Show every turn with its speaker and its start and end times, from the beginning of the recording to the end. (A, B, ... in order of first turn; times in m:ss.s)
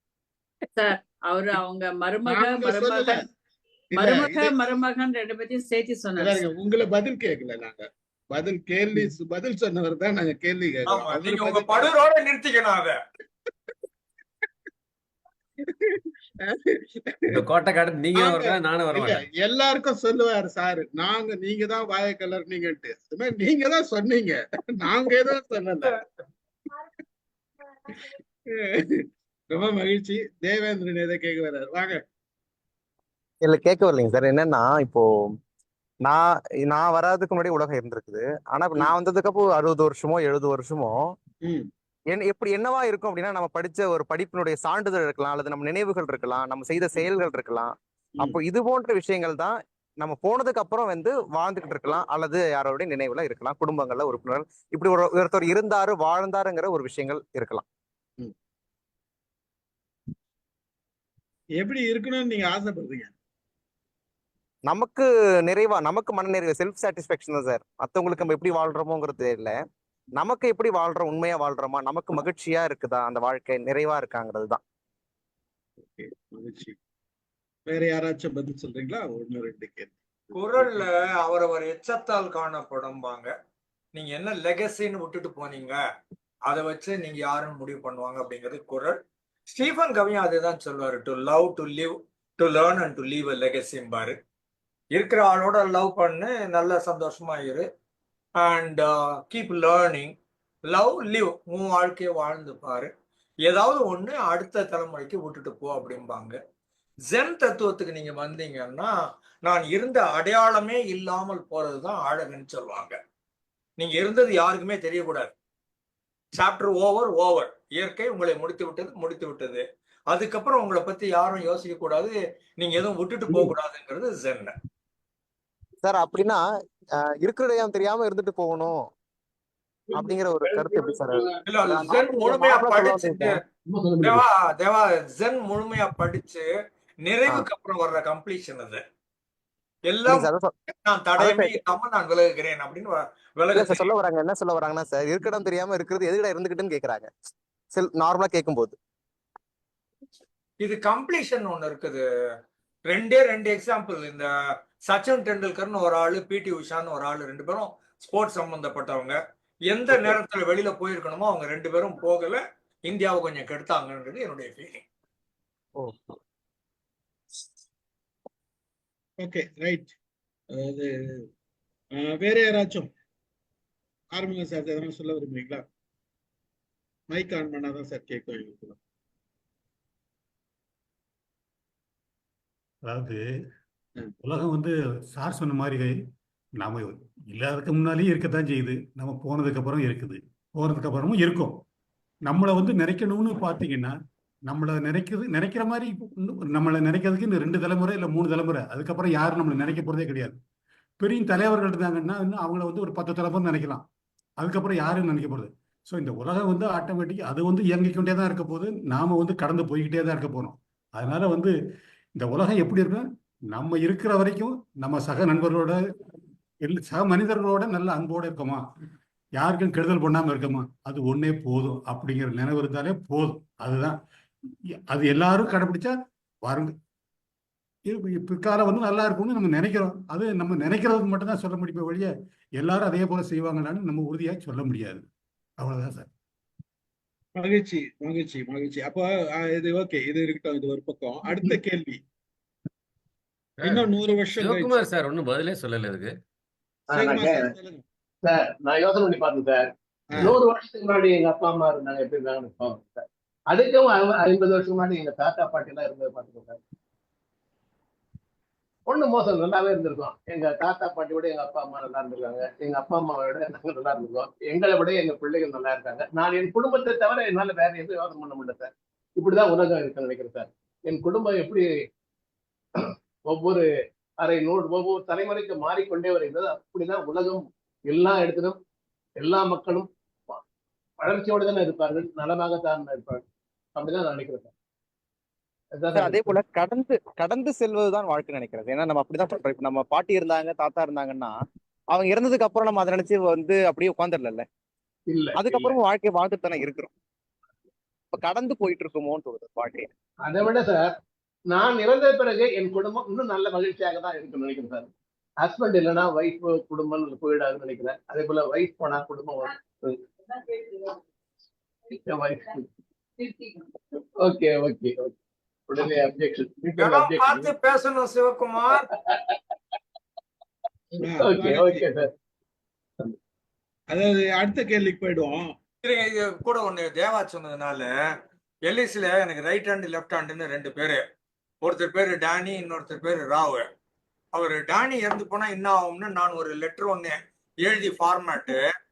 0:00.8-0:03.2 A
0:02.2-0:03.2 B
0:03.9-0:06.4 A
0:04.0-0:04.6 B
0:06.2-0:12.0 B
0:10.9-0:13.0 C
0:15.6-0:17.4 B
0:17.3-0:19.2 D
0:18.2-0:25.9 B
0:28.5-0:32.0 B
0:33.4-0:35.1 E
0:36.0-0:41.1 E
0:41.4-0:41.7 B
0:42.1-0:57.6 E
1:01.6-1:03.1 B
1:04.7-1:09.6 E
1:10.2-1:14.6 E
1:15.8-1:16.8 B
1:17.7-1:20.8 B
1:20.3-1:23.3 C
1:23.9-1:25.8 C
1:26.5-1:29.0 C
1:29.5-1:34.2 C
1:34.9-1:37.6 C
1:38.4-1:40.1 C
1:40.7-1:42.9 C
1:43.4-1:46.4 C
1:47.1-1:48.9 C
1:49.4-1:53.0 C
1:53.8-1:55.3 C
1:56.3-2:04.5 C
2:05.8-2:06.4 E
2:07.0-2:08.8 E
2:09.9-2:11.9 F
2:09.9-2:13.4 E
2:11.5-2:13.4 C
2:13.6-2:14.3 F
2:14.0-2:16.5 C
2:17.0-2:18.8 C
2:19.9-2:20.3 C
2:20.0-2:20.5 E
2:20.8-2:23.9 C
2:21.2-2:21.5 E
2:23.5-2:27.1 E
2:27.7-2:28.8 E
2:30.6-2:32.0 C
2:32.9-2:34.3 C
2:34.9-2:39.2 C
2:39.7-2:44.8 C
2:39.9-2:40.2 E
2:45.8-2:46.1 E
2:49.2-2:49.9 B
2:50.5-2:51.2 B
2:51.9-2:52.9 B
2:54.1-2:55.6 B
2:57.1-2:58.8 B
3:02.8-3:03.2 G
3:04.2-3:06.0 G
3:06.6-3:11.6 G
3:12.3-3:13.9 G
3:14.5-3:20.4 G
3:21.0-3:23.8 G
3:24.4-3:31.5 G
3:32.2-3:35.8 G
3:36.6-3:38.6 G
3:39.4-3:44.0 G
3:44.9-3:45.9 G
3:46.4-3:46.7 G
3:47.8-3:55.0 G
3:55.6-3:56.1 G
3:57.4-4:02.0 B
4:03.6-4:06.1 D
4:03.6-4:04.8 B
4:06.9-4:07.5 F
4:06.9-4:07.8 B
4:08.2-4:16.6 F
4:18.9-4:31.7 F
4:32.8-4:33.6 F
4:34.2-4:38.6 F
4:39.2-4:40.4 F
4:41.0-4:43.2 F
4:43.8-4:44.5 F
4:45.8-4:46.3 F
4:45.9-4:51.3 E
4:51.9-4:54.4 E
4:55.1-4:55.8 F
4:55.3-4:56.9 E
4:58.1-4:59.9 E
5:00.2-5:00.9 F
5:01.5-5:04.9 F
5:05.4-5:10.0 F
5:11.9-5:12.7 F
5:14.2-5:15.1 F
5:15.7-5:17.5 F
5:16.8-5:18.9 C
5:18.9-5:19.4 F
5:20.9-5:22.1 F
5:21.0-5:21.8 B
5:23.9-5:25.5 B
5:25.8-5:27.9 C
5:28.6-5:31.0 C
5:31.6-5:33.6 C
5:34.3-5:38.6 C